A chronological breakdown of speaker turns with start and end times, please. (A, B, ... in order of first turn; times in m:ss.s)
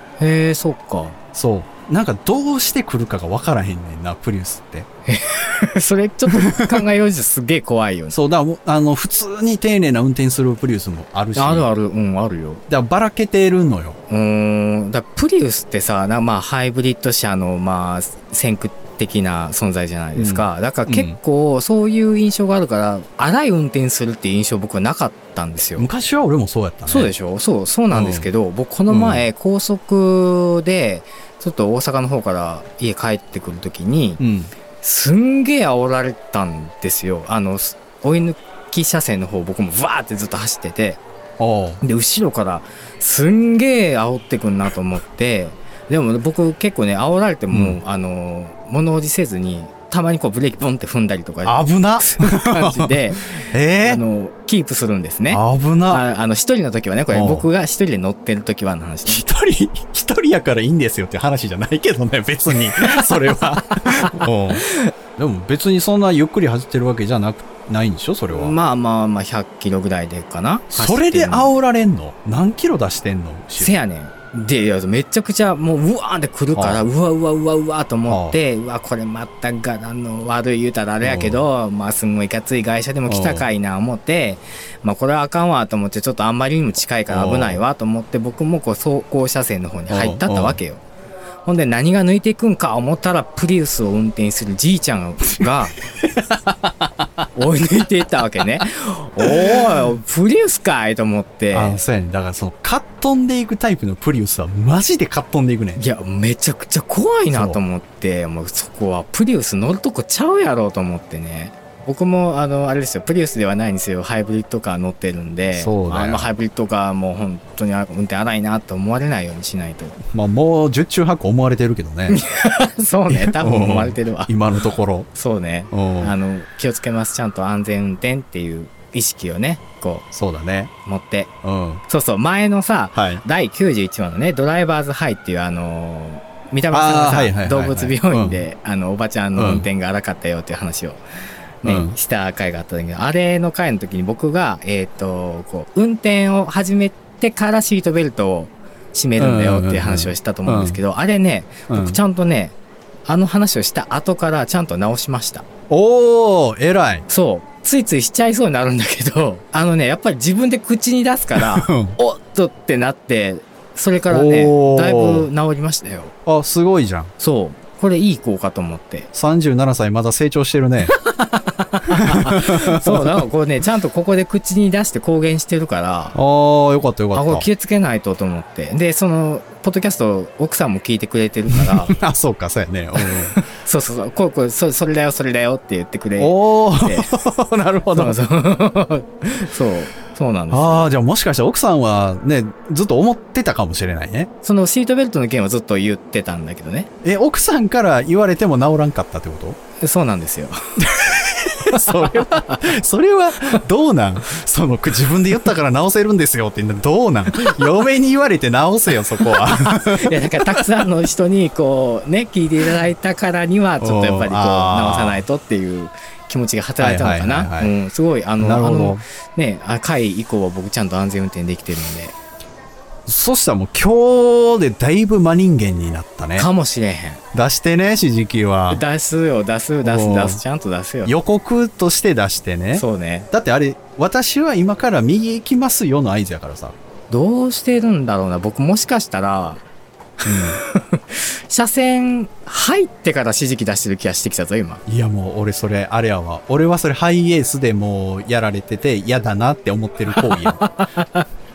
0:00.2-0:01.2 A
0:01.3-0:04.9 B
0:05.1-0:08.2 A
0:06.3-0:06.8 B
0:08.1-0:11.7 B
0:11.4-0:12.6 A
0:12.7-0:14.0 B
0:14.1-0:25.9 A
0:20.2-0:21.2 B
0:25.8-0:27.1 B
0:26.9-0:34.2 A
0:27.9-0:28.3 B
0:28.9-0:29.3 B
0:34.2-0:34.5 B
0:34.8-0:41.0 A
0:41.4-0:41.8 B
0:41.8-0:59.2 A
0:47.5-0:47.8 B
0:51.4-0:54.0 B
0:55.3-0:56.0 B
0:57.1-0:57.5 B
0:59.1-1:08.6 B
1:02.8-1:04.7 A
1:08.3-1:11.5 A
1:10.7-1:13.8 B
1:13.6-1:30.8 A
1:16.5-1:16.9 B
1:18.1-1:18.4 B
1:21.0-1:21.5 B
1:23.1-1:23.5 B
1:27.1-1:27.6 B
1:29.9-1:30.6 B
1:31.4-1:35.8 A
1:36.2-1:36.5 B
1:37.4-1:41.8 A
1:39.2-1:39.7 B
1:41.5-1:45.8 B
1:45.8-2:00.0 A
1:47.3-1:47.6 B
1:55.5-1:56.3 B
2:00.1-2:02.2 B
2:02.1-2:04.4 A
2:03.1-2:05.1 B
2:05.1-2:10.1 A
2:05.7-2:06.2 B
2:10.1-2:10.7 B
2:10.8-2:11.3 A
2:11.4-2:11.8 B
2:11.9-2:21.0 A
2:13.0-2:13.2 B
2:16.7-2:18.4 B
2:19.4-2:19.7 B
2:21.6-2:35.5 A
2:21.6-2:22.0 B
2:29.2-2:30.8 B
2:31.7-2:32.0 B
2:35.7-2:37.0 B
2:37.1-2:46.1 A
2:41.4-2:42.0 B
2:44.1-2:45.3 B
2:46.3-2:47.1 B
2:47.2-2:49.1 A
2:49.1-2:51.0 B
2:50.9-2:56.2 A
2:51.9-2:53.2 B
2:56.1-2:57.5 B
2:57.1-3:02.0 A
3:01.5-3:03.4 B
3:03.0-3:07.1 A
3:06.2-3:08.2 B
3:07.9-3:10.9 A
3:10.5-3:14.3 B
3:14.4-3:16.9 A
3:17.0-3:19.6 B
3:19.8-3:20.6 A
3:20.8-3:30.8 B
3:21.7-3:22.8 A
3:27.3-3:27.7 A
3:29.2-3:42.2 A
3:33.8-3:35.2 B
3:36.8-3:37.7 B
3:38.4-3:39.0 B
3:43.1-3:46.5 B
3:46.4-3:47.2 A
3:47.3-3:48.8 B
3:48.7-3:51.1 A
3:49.8-3:50.4 B
3:51.0-3:56.8 B
3:52.7-3:53.3 A
3:57.1-3:59.6 A
4:00.2-4:04.8 A
4:00.2-4:00.6 B
4:04.9-4:10.6 B
4:10.2-4:11.2 A